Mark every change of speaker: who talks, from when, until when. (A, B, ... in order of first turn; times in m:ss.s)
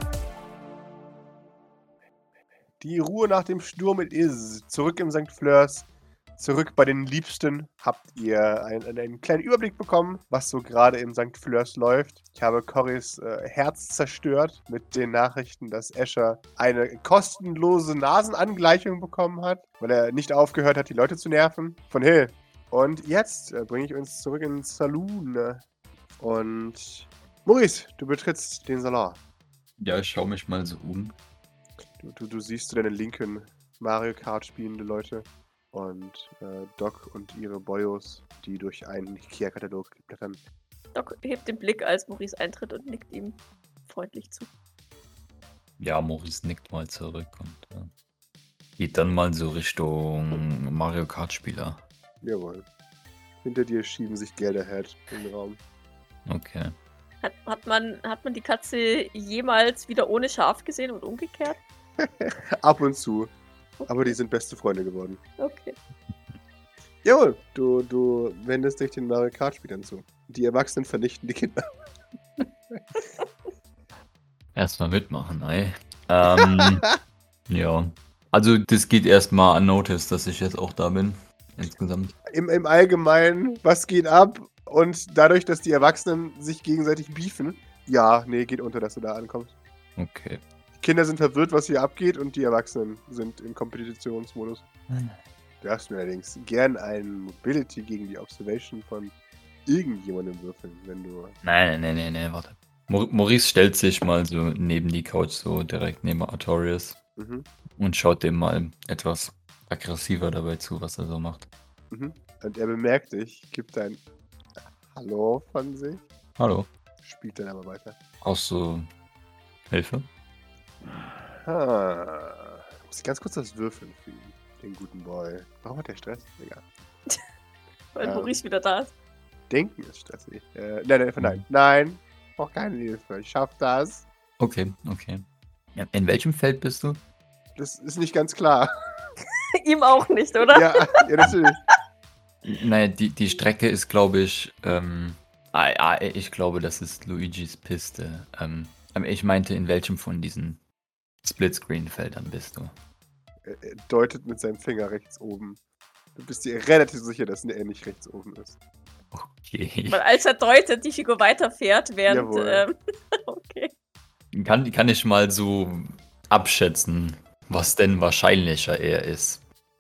0:02.8-0:05.9 A
0:06.4-0:25.6 A
0:26.2-0:29.2 A
0:29.8-0:31.2 B
0:32.0-0:40.4 A
0:41.0-0:44.5 C
0:45.8-0:47.9 B
0:48.8-0:51.8 B
0:52.2-0:52.6 A
0:53.4-0:55.6 A
0:56.3-0:56.7 B
0:57.2-1:01.6 C
1:02.0-1:03.3 A
1:03.8-1:04.1 C
1:03.9-1:05.2 A
1:05.4-1:05.8 C
1:07.0-1:11.7 A
1:14.6-1:16.8 B
1:17.5-1:22.1 B
1:22.3-1:29.5 A
1:30.0-1:30.4 B
1:30.8-1:34.6 A
1:34.9-1:35.2 B
1:35.6-1:39.1 A
1:39.7-1:41.4 A
1:41.4-1:47.0 B
1:47.2-1:47.5 A
1:47.8-1:51.5 B
1:51.9-1:54.0 A
1:54.9-1:56.0 A
1:56.4-1:56.7 B
1:57.0-1:58.0 A
1:58.2-1:58.9 B
1:59.7-2:00.1 B
2:01.0-2:06.6 A
2:07.9-2:08.9 C
2:08.0-2:08.4 A
2:09.5-2:14.0 A
2:14.4-2:17.0 B
2:17.6-2:18.7 A
2:19.6-2:21.3 C
2:20.5-2:21.6 A
2:22.4-2:30.6 B
2:31.2-2:32.7 B
2:33.4-2:35.6 A
2:36.2-2:38.6 A
2:39.1-2:40.0 B
2:39.9-2:43.7 C
2:42.1-2:42.6 A
2:44.3-2:49.4 B